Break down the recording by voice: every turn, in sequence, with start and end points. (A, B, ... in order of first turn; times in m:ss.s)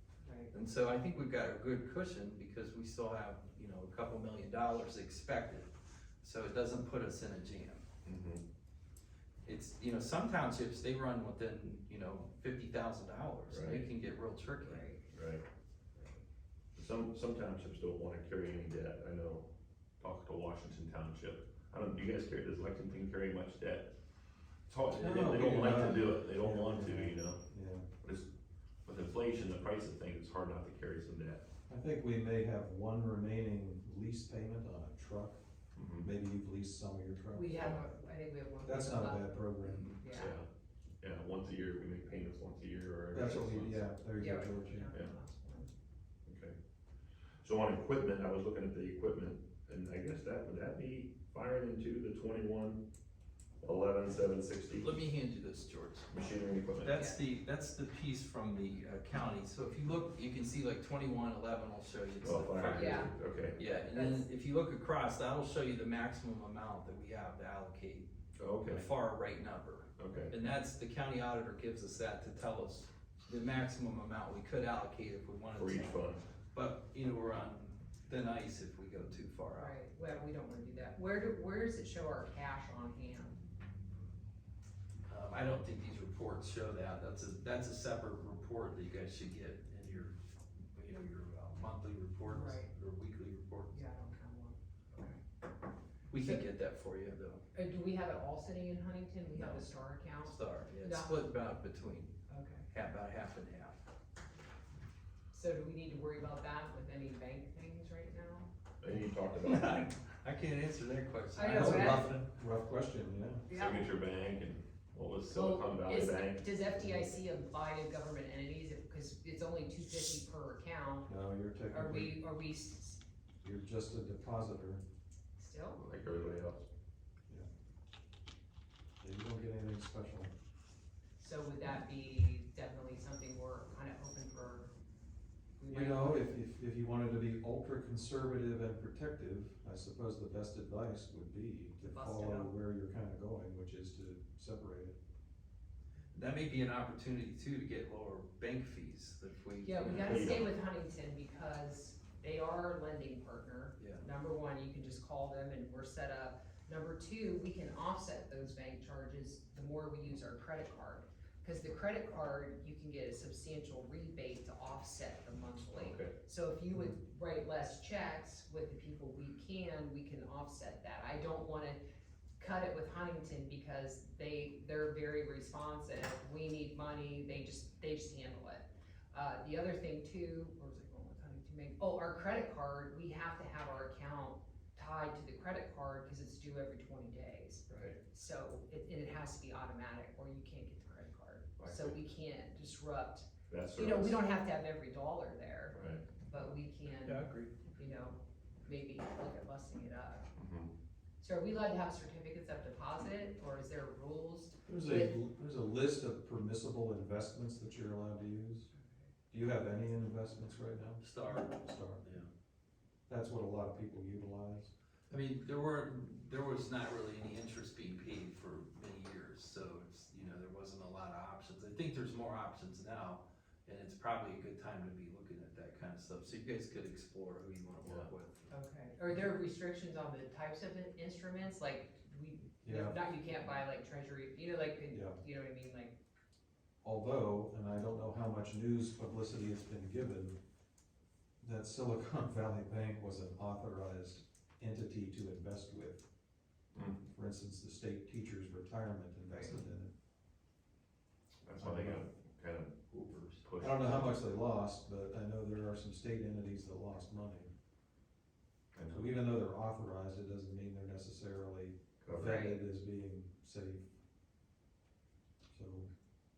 0:00.2-0:00.5 A
0:00.5-0:05.7 B
0:06.2-0:07.8 B
0:08.0-0:08.4 C
0:09.4-0:14.9 B
0:13.5-0:13.9 C
0:14.6-0:15.1 A
0:15.1-0:15.4 C
0:16.0-0:16.2 A
0:16.8-0:19.5 C
0:20.0-0:23.9 C
0:24.7-0:27.4 C
0:25.0-0:27.9 D
0:28.9-0:31.4 C
0:31.7-0:35.4 D
0:35.8-0:36.1 C
0:36.0-0:37.9 D
0:37.3-0:39.2 A
0:38.6-0:40.0 D
0:40.0-0:40.4 A
0:40.1-0:40.5 C
0:41.0-0:43.9 C
0:43.1-0:44.9 D
0:44.2-0:45.7 A
0:46.3-0:46.6 C
0:47.4-0:52.8 C
0:53.6-0:55.0 C
0:54.8-0:56.1 B
0:56.1-0:57.0 C
0:56.8-1:08.1 B
0:56.9-0:57.2 A
1:02.2-1:03.6 C
1:02.7-1:03.1 A
1:03.7-1:04.3 A
1:08.4-1:08.9 C
1:08.6-1:16.0 B
1:10.0-1:10.3 C
1:15.6-1:16.2 C
1:16.5-1:19.8 B
1:19.6-1:23.4 A
1:25.1-1:30.2 B
1:30.7-1:33.8 B
1:32.2-1:32.7 A
1:33.7-1:35.2 A
1:36.1-1:37.4 B
1:36.1-1:36.4 A
1:37.5-1:41.3 A
1:39.3-1:39.7 B
1:40.2-1:42.2 B
1:42.3-1:42.6 A
1:42.7-1:43.8 B
1:45.3-1:48.5 A
1:48.8-1:49.9 C
1:49.5-1:52.3 B
1:51.4-1:52.1 A
1:51.5-1:53.5 D
1:53.5-1:53.9 A
1:53.5-1:56.4 C
1:55.3-2:01.1 A
1:56.8-1:57.1 D
2:01.1-2:02.2 D
2:01.7-2:03.0 A
2:03.4-2:04.8 D
2:05.4-2:05.8 A
2:05.8-2:06.6 C
2:09.0-2:10.3 D
2:11.2-2:14.7 A
2:15.6-2:16.3 A
2:15.7-2:25.0 D
2:21.8-2:22.5 A
2:26.1-2:30.5 B
2:29.6-2:51.8 A
2:30.0-2:30.5 C
2:33.8-2:34.0 B
2:45.8-2:46.1 C
2:52.4-3:20.3 A
3:07.7-3:08.0 C
3:11.6-3:12.0 C
3:13.5-3:14.2 C
3:15.7-3:16.3 C
3:17.0-3:17.6 B
3:20.4-3:20.7 C
3:21.2-3:25.1 A
3:24.7-3:28.7 D
3:29.3-3:32.1 D
3:31.0-3:32.3 B
3:33.1-3:34.7 D
3:35.1-3:48.5 B
3:47.8-3:48.1 C
3:48.5-3:56.0 A
3:52.6-3:53.0 D
3:54.9-3:55.2 D
3:56.8-4:00.4 D
4:01.4-4:06.0 D
4:06.7-4:07.0 C
4:07.1-4:09.9 D
4:09.3-4:09.6 A
4:11.4-4:12.8 C
4:11.6-4:12.0 D
4:12.9-4:13.5 B
4:13.4-4:14.2 C
4:13.6-4:17.5 D
4:18.7-4:19.1 C
4:18.9-4:23.8 D
4:22.0-4:22.4 C
4:22.2-4:22.6 A
4:25.5-4:25.9 D